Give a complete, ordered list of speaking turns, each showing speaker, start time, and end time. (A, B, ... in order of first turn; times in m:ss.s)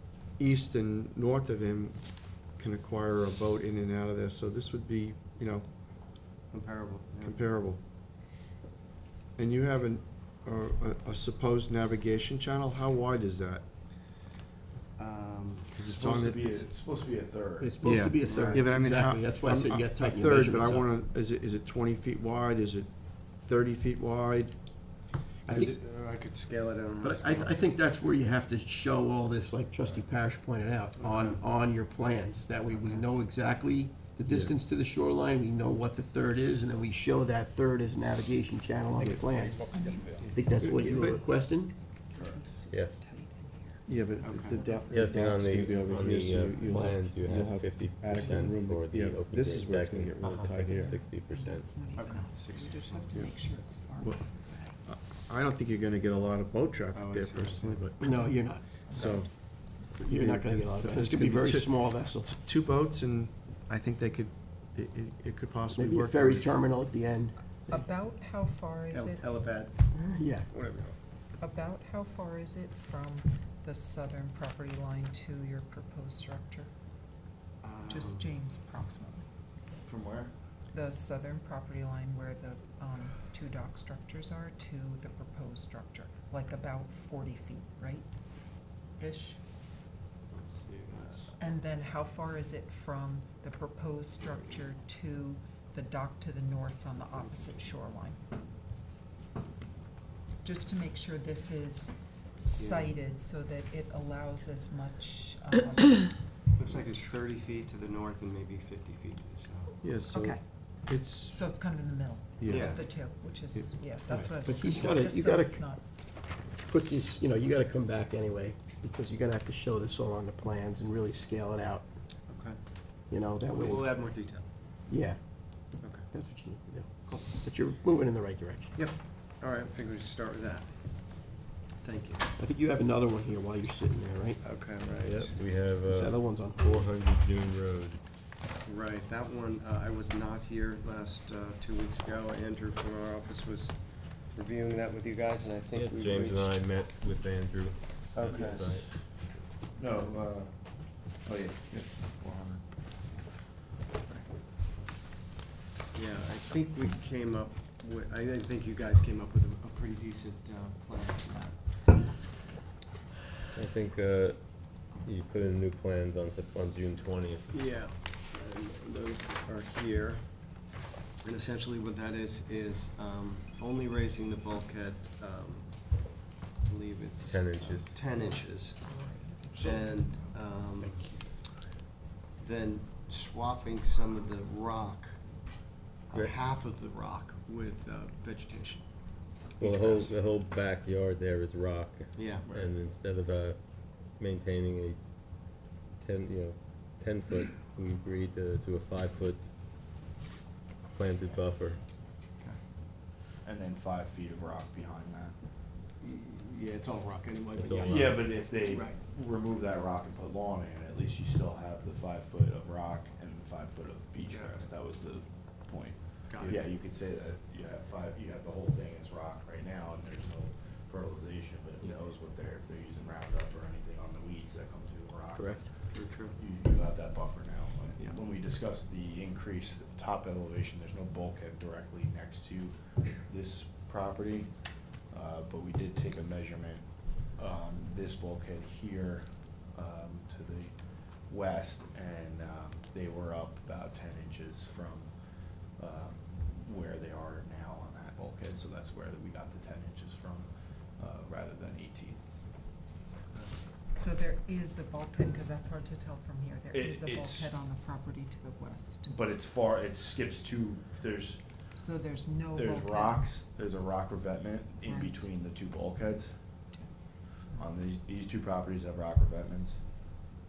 0:00.4-0:05.7 A
0:06.5-0:07.4 B
0:07.2-0:07.8 A
0:09.4-0:13.6 A
0:15.0-0:15.7 B
0:15.7-0:16.7 A
0:15.9-0:17.7 C
0:17.6-0:21.0 D
0:17.8-0:24.6 A
0:18.2-0:18.7 B
0:25.4-0:25.7 A
0:25.5-0:27.6 B
0:25.5-0:25.8 D
0:27.0-0:39.6 D
0:31.0-0:31.4 B
0:32.7-0:33.1 B
0:34.3-0:34.5 A
0:39.0-0:39.3 A
0:39.6-0:46.9 E
0:40.3-0:41.8 D
0:40.4-0:41.2 A
0:42.7-0:43.0 F
0:43.9-0:51.0 A
0:44.2-0:44.7 B
0:44.9-0:51.7 F
0:50.8-0:54.8 E
0:52.0-0:53.2 B
0:54.8-0:58.1 A
0:56.9-0:57.9 B
0:58.0-0:59.2 D
0:58.9-1:06.6 A
1:00.0-1:02.3 D
1:05.7-1:07.8 D
1:07.7-1:09.3 E
1:08.9-1:10.0 B
1:09.9-1:10.5 D
1:10.5-1:11.0 B
1:11.4-1:16.7 E
1:17.6-1:18.3 B
1:17.9-1:19.3 E
1:19.8-1:20.3 C
1:20.7-1:28.1 E
1:29.0-1:29.4 E
1:30.4-1:31.3 D
1:31.4-1:38.2 E
1:40.4-1:46.5 E
1:42.6-1:43.0 B
1:46.6-1:49.8 B
1:49.8-1:51.4 A
1:50.1-1:55.8 E
1:52.4-1:52.9 A
1:52.5-1:52.8 B
1:53.5-1:54.3 A
1:54.4-2:01.8 D
2:02.3-2:02.6 B
2:03.1-2:04.0 D
2:03.5-2:04.5 B
2:04.9-2:08.8 D
2:05.8-2:06.1 B
2:08.8-2:12.3 B
2:12.4-2:14.4 D
2:14.4-2:15.4 B
2:15.0-2:18.0 F
2:15.8-2:16.8 D
2:18.6-2:26.6 B
2:25.7-2:28.9 F
2:28.2-2:28.7 B
2:28.2-2:28.8 C
2:29.8-2:33.2 C
2:35.9-2:41.8 B
2:43.5-2:47.5 F
2:47.5-2:50.5 B
2:51.2-2:58.9 B
2:57.3-2:58.0 F
2:58.1-3:00.3 E
2:59.6-3:01.2 B
3:00.8-3:01.1 A
3:02.4-3:05.3 B
3:06.1-3:08.9 B
3:09.6-3:10.1 B
3:09.6-3:13.6 F
3:12.2-3:12.5 B
3:12.4-3:12.7 C
3:14.1-3:15.0 F
3:16.0-3:19.4 F
3:20.9-3:21.8 F
3:23.4-3:25.4 C
3:26.0-3:28.3 D
3:27.6-3:28.2 F
3:27.8-4:12.2 C
3:28.7-3:28.9 B
3:34.2-3:34.7 B
3:36.3-3:36.6 B
3:45.4-3:45.7 D
3:45.9-3:46.4 B
4:13.9-4:19.1 E
4:16.7-4:17.6 C
4:19.0-4:21.7 C
4:21.7-4:23.3 E
4:22.5-4:26.4 C
4:24.8-4:25.3 E
4:26.7-4:27.0 E
4:27.5-4:30.1 C